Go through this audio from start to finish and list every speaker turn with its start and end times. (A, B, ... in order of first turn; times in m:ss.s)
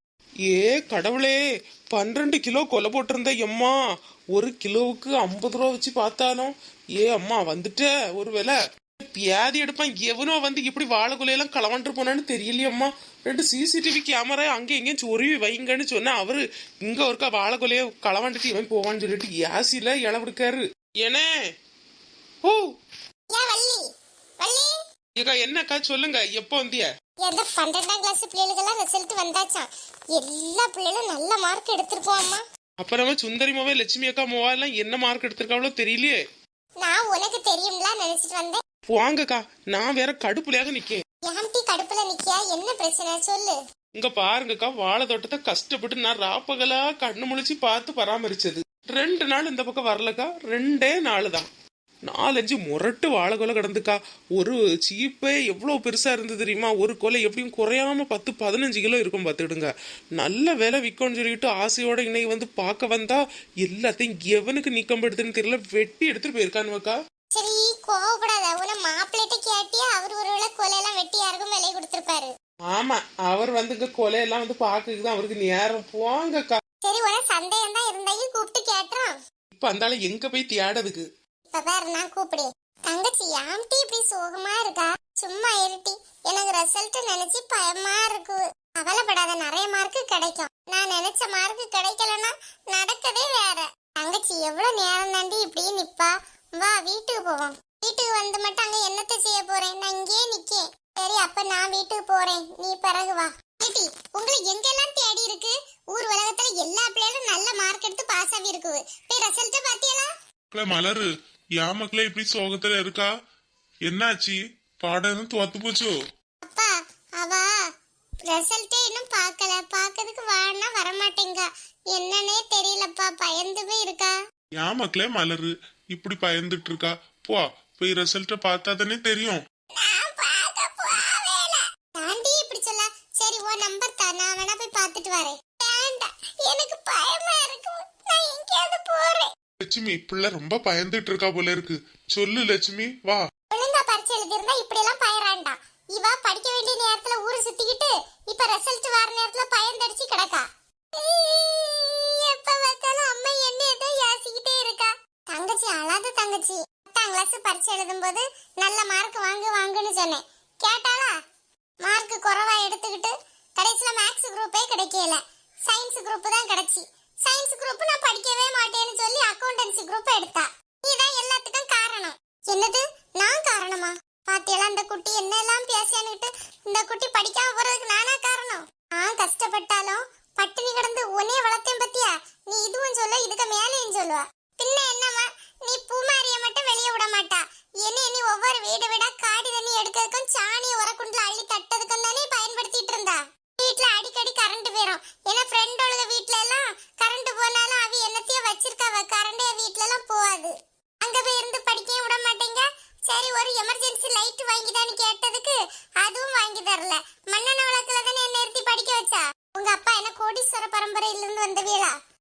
0:00.4-0:03.8 A
0:04.3-0:21.3 A
0:23.3-0:23.8 B
0:24.4-0:24.7 B
0:25.2-0:26.9 A
0:27.2-0:32.4 B
0:32.8-0:36.2 A
0:36.8-0:38.6 B
0:38.9-0:41.0 A
0:41.2-0:43.6 B
0:44.0-0:51.5 A
0:52.1-1:07.0 A
1:07.3-1:12.3 B
1:12.7-1:16.6 A
1:16.8-1:19.1 B
1:19.5-1:21.0 A
1:21.5-1:50.1 B
1:50.5-1:51.1 C
1:51.6-1:53.1 C
1:53.8-1:55.9 C
1:56.4-1:57.5 B
1:58.3-2:04.1 B
2:04.6-2:09.4 C
2:09.8-2:19.3 B
2:19.6-2:23.2 C
2:23.5-2:41.1 B
2:41.8-3:31.9 B